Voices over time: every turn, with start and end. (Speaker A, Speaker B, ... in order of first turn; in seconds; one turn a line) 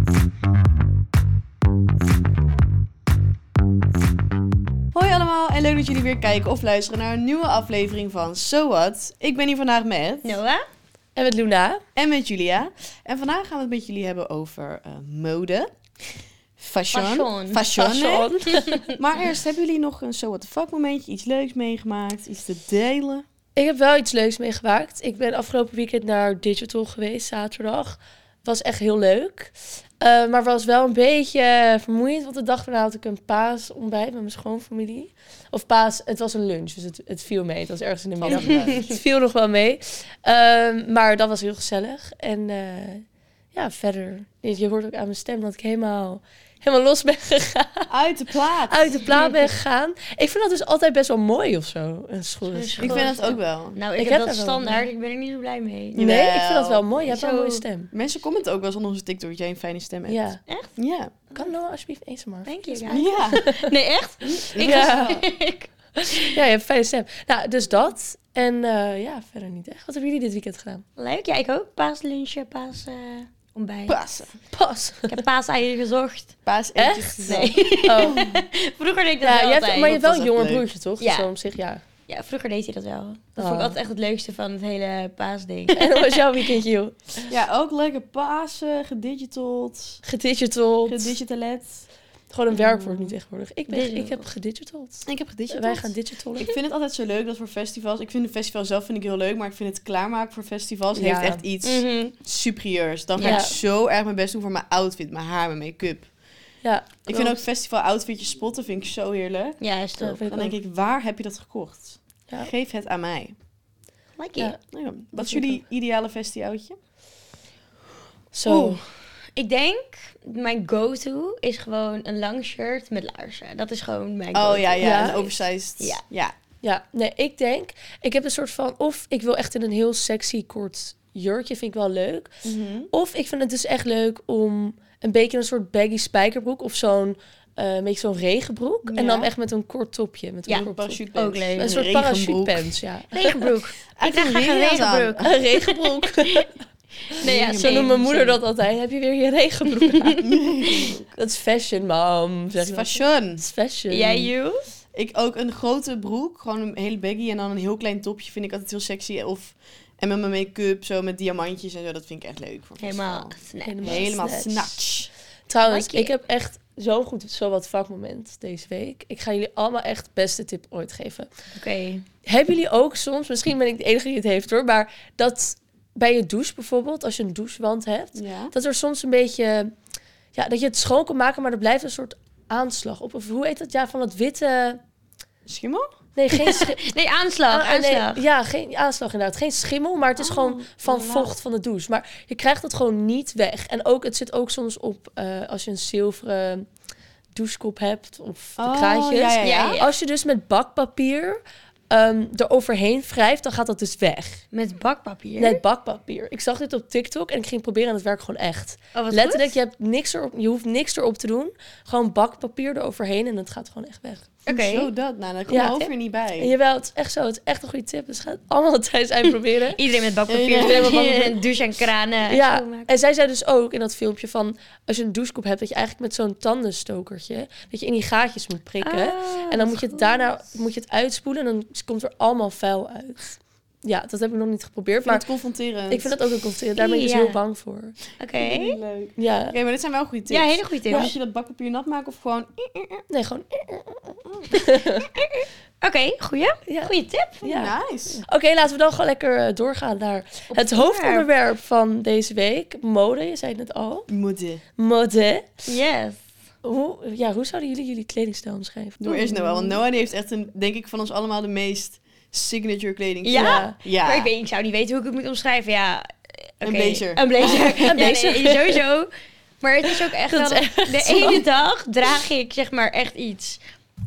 Speaker A: 4.9-10.4
Speaker B: 10.2-10.6
Speaker C: 11.2-11.8
Speaker A: 11.9-15.7
Speaker A: 16.6-18.3
Speaker B: 16.9-17.6
Speaker C: 17.6-18.9
Speaker B: 18.4-19.0
Speaker A: 19.0-23.2
Speaker C: 23.6-47.9
Speaker A: 38.2-39.0
Speaker A: 47.9-49.2
Speaker C: 48.7-53.2
Speaker B: 52.5-56.0
Speaker A: 52.8-53.8
Speaker C: 54.0-54.8
Speaker A: 55.9-56.9
Speaker C: 56.0-57.9
Speaker B: 57.0-57.6
Speaker A: 57.9-60.2
Speaker C: 60.1-60.4
Speaker B: 60.5-60.7
Speaker A: 60.8-61.2
Speaker C: 61.4-63.7
Speaker B: 62.5-66.4
Speaker A: 62.9-63.5
Speaker A: 64.5-65.2
Speaker C: 64.5-65.2
Speaker C: 66.1-70.8
Speaker B: 71.0-74.0
Speaker A: 73.9-74.3
Speaker C: 74.5-75.2
Speaker B: 75.1-76.3
Speaker A: 76.5-78.4
Speaker C: 76.8-78.2
Speaker B: 77.3-80.0
Speaker C: 79.2-81.8
Speaker A: 79.8-80.7
Speaker B: 81.0-81.3
Speaker B: 82.1-86.2
Speaker C: 83.4-83.8
Speaker C: 85.7-87.3
Speaker A: 87.3-90.0
Speaker C: 90.0-91.2
Speaker A: 90.8-91.9
Speaker C: 92.3-96.5
Speaker A: 92.5-93.2
Speaker B: 93.7-94.2
Speaker A: 95.1-106.1
Speaker C: 101.0-101.4
Speaker B: 101.6-102.1
Speaker B: 103.2-103.5
Speaker C: 103.2-103.6
Speaker C: 106.6-107.4
Speaker A: 107.1-109.6
Speaker B: 109.6-110.3
Speaker C: 110.0-110.5
Speaker A: 110.3-113.3
Speaker B: 114.2-114.5
Speaker A: 114.7-116.8
Speaker C: 115.2-115.6
Speaker C: 118.3-118.8
Speaker A: 118.5-118.8
Speaker B: 119.4-126.0
Speaker A: 124.3-126.4
Speaker C: 124.8-125.3
Speaker C: 126.6-132.3
Speaker A: 132.4-132.9
Speaker C: 132.9-141.0
Speaker A: 138.9-139.3
Speaker B: 140.5-141.7
Speaker A: 140.6-142.7
Speaker C: 141.6-143.6
Speaker B: 143.1-146.5
Speaker A: 144.0-145.3
Speaker C: 145.2-146.5
Speaker B: 147.1-148.4
Speaker A: 147.2-147.9
Speaker C: 147.3-154.3
Speaker B: 149.8-150.8
Speaker A: 150.2-151.1
Speaker A: 152.6-153.4
Speaker B: 153.9-154.6
Speaker A: 154.9-165.1
Speaker B: 162.8-164.0
Speaker C: 163.7-164.9
Speaker C: 165.5-171.3
Speaker B: 165.7-166.1
Speaker B: 171.6-172.0
Speaker C: 172.3-179.7
Speaker A: 178.2-178.5
Speaker C: 180.3-184.8
Speaker A: 185.5-185.9
Speaker C: 186.2-186.9
Speaker B: 186.3-188.2
Speaker C: 187.5-196.7
Speaker A: 190.2-191.3
Speaker C: 197.3-201.4
Speaker A: 198.6-199.8
Speaker B: 199.4-199.9
Speaker C: 201.9-204.4
Speaker B: 204.5-205.6
Speaker C: 205.4-214.3
Speaker B: 208.9-209.5
Speaker B: 214.5-214.9
Speaker A: 214.5-216.5
Speaker C: 215.5-215.9
Speaker C: 216.4-219.8
Speaker B: 219.7-222.9
Speaker A: 220.3-221.4
Speaker C: 222.3-235.2
Speaker B: 228.8-230.3
Speaker A: 235.0-236.2
Speaker C: 235.9-238.0
Speaker B: 236.8-237.4
Speaker B: 238.2-238.8
Speaker A: 238.4-243.1
Speaker C: 239.2-239.6
Speaker B: 240.3-241.1
Speaker C: 243.1-245.1
Speaker B: 244.6-247.5
Speaker C: 246.7-246.9
Speaker C: 247.4-247.7
Speaker A: 247.4-248.2
Speaker C: 248.2-254.1
Speaker B: 250.5-251.3
Speaker A: 254.1-254.6
Speaker C: 254.8-255.5
Speaker B: 255.7-256.2
Speaker C: 256.6-259.8
Speaker A: 259.0-264.3
Speaker B: 263.2-266.1
Speaker C: 263.3-263.8
Speaker B: 266.6-269.1
Speaker A: 266.6-268.1
Speaker C: 267.9-268.8
Speaker B: 269.6-273.6
Speaker C: 269.9-271.5